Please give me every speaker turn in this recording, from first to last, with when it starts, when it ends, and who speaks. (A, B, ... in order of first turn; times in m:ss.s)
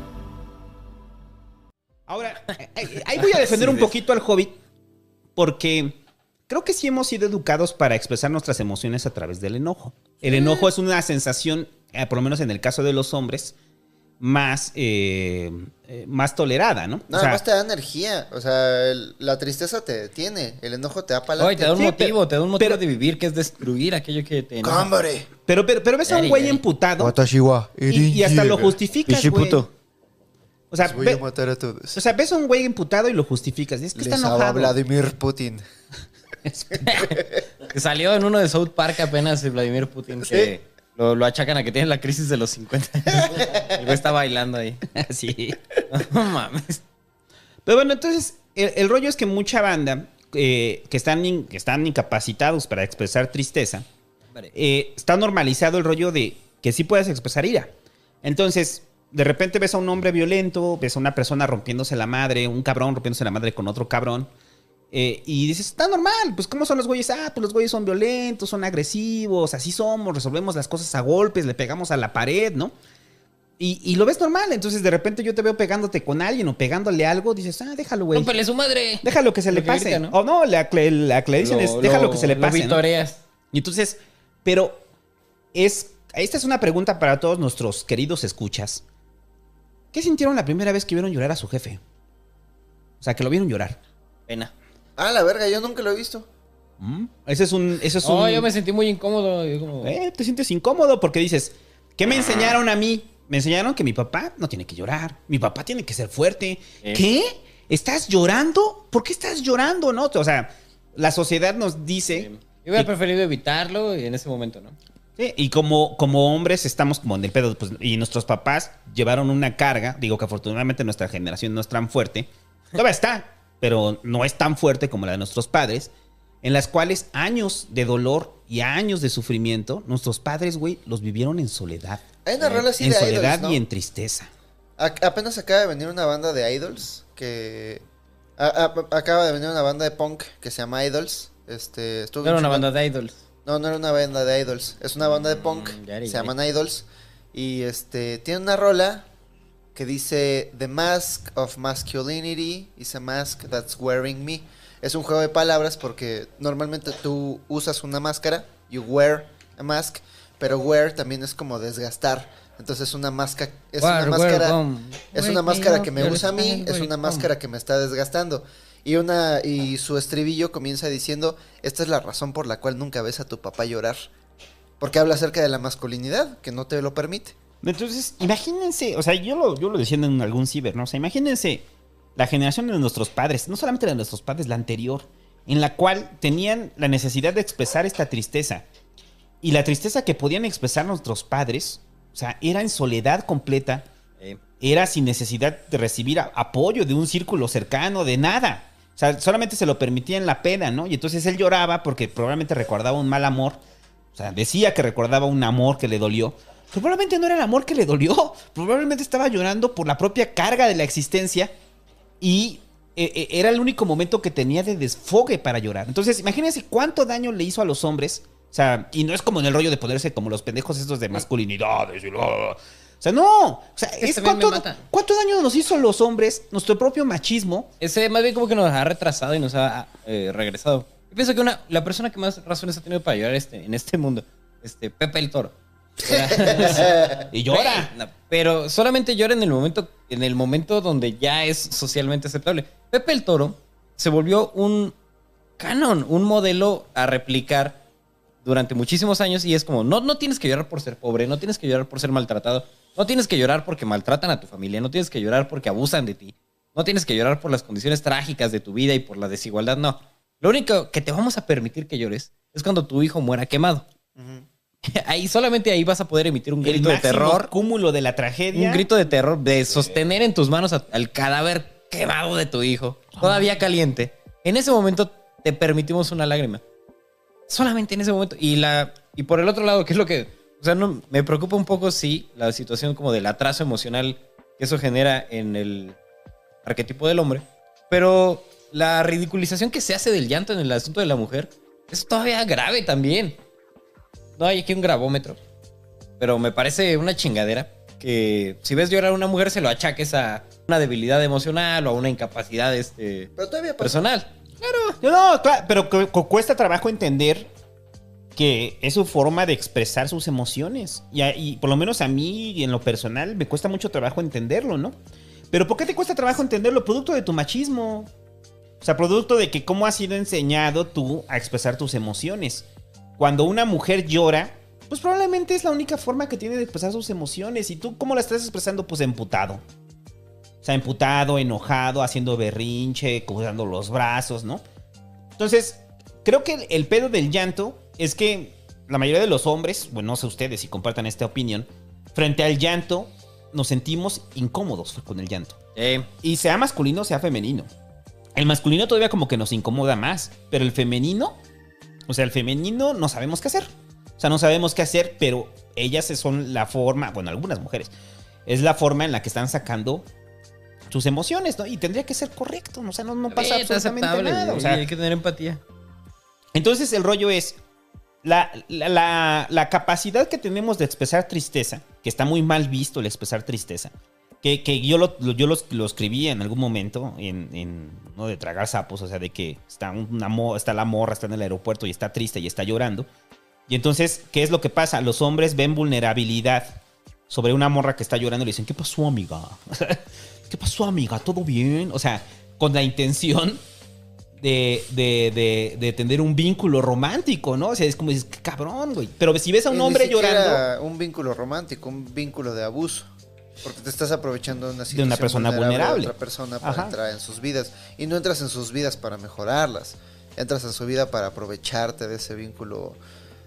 0:02.1-0:04.5 A
0:03.2-0:03.9 B
0:05.4-0:13.5 A
0:10.2-0:10.7 C
0:14.2-0:17.4 A
0:17.1-0:21.8 C
0:21.4-0:24.9 B
0:21.8-0:22.8 A
0:24.6-0:25.3 C
0:25.4-0:27.2 A
0:26.0-0:26.6 B
0:27.0-0:28.8 C
0:27.9-0:29.6 A
0:29.0-0:29.7 B
0:30.7-0:31.2 A
0:30.8-0:32.0 C
0:31.9-0:34.8 A
0:34.0-0:35.6 C
0:36.4-0:36.8 A
0:36.8-0:44.8 B
0:37.0-0:37.3 C
0:44.9-0:45.7 A
0:45.9-0:46.8 B
0:47.6-0:53.8 A
0:54.5-0:57.7 A
0:58.2-1:04.3 A
1:04.9-1:12.7 A
1:13.6-1:18.4 A
1:18.1-1:20.1 B
1:19.0-1:22.8 A
1:21.4-1:23.2 B
1:23.5-1:24.8 A
1:25.5-1:28.8 A
1:29.9-1:31.8 A
1:33.0-1:33.8 A
1:35.0-1:36.3 C
1:36.8-1:38.5 A
1:38.0-1:39.9 B
1:39.8-1:52.9 A
1:42.1-1:42.5 B
1:52.1-1:54.8 B
1:55.2-2:05.9 A
2:06.4-2:14.3 A
2:12.2-2:13.6 C
2:14.8-2:17.8 C
2:18.4-2:22.7 C
2:22.2-2:23.2 B
2:23.4-2:29.1 C
2:25.1-2:26.3 B
2:29.8-2:44.6 C
2:43.8-2:47.3 B
2:45.1-2:54.0 C
2:54.8-2:57.4 C
2:57.6-3:08.6 A
3:09.4-3:13.8 A
3:14.6-3:23.6 A
3:24.2-3:31.5 A
3:32.2-3:47.7 A
3:44.0-3:44.8 B
3:47.8-4:04.9 B
3:57.3-3:57.9 A
4:05.6-4:07.8 B
4:08.4-4:23.8 B
4:24.2-4:24.4 C
4:24.9-4:27.5 B
4:26.6-4:28.9 A
4:28.5-4:36.6 B
4:33.2-4:33.5 A
4:37.5-4:46.0 B
4:46.6-4:53.4 B
4:54.4-4:55.4 B
4:56.2-5:04.9 B
5:03.4-5:04.1 C
5:05.0-5:07.5 A
5:08.4-5:14.9 A
5:15.5-5:18.1 A
5:18.8-5:22.6 A
5:23.2-5:29.6 A
5:30.6-5:34.6 A
5:35.4-5:45.6 A
5:45.8-5:46.1 B
5:46.2-5:47.7 A
5:48.4-5:51.4 A
5:52.1-5:57.9 A
5:58.4-6:00.0 A
6:00.9-6:04.9 A
6:03.3-6:05.6 B
6:06.6-6:07.6 A
6:08.2-6:23.1 A
6:23.7-6:33.6 A
6:34.4-6:40.6 A
6:39.7-6:43.1 C
6:43.6-6:53.0 C
6:44.9-6:47.0 A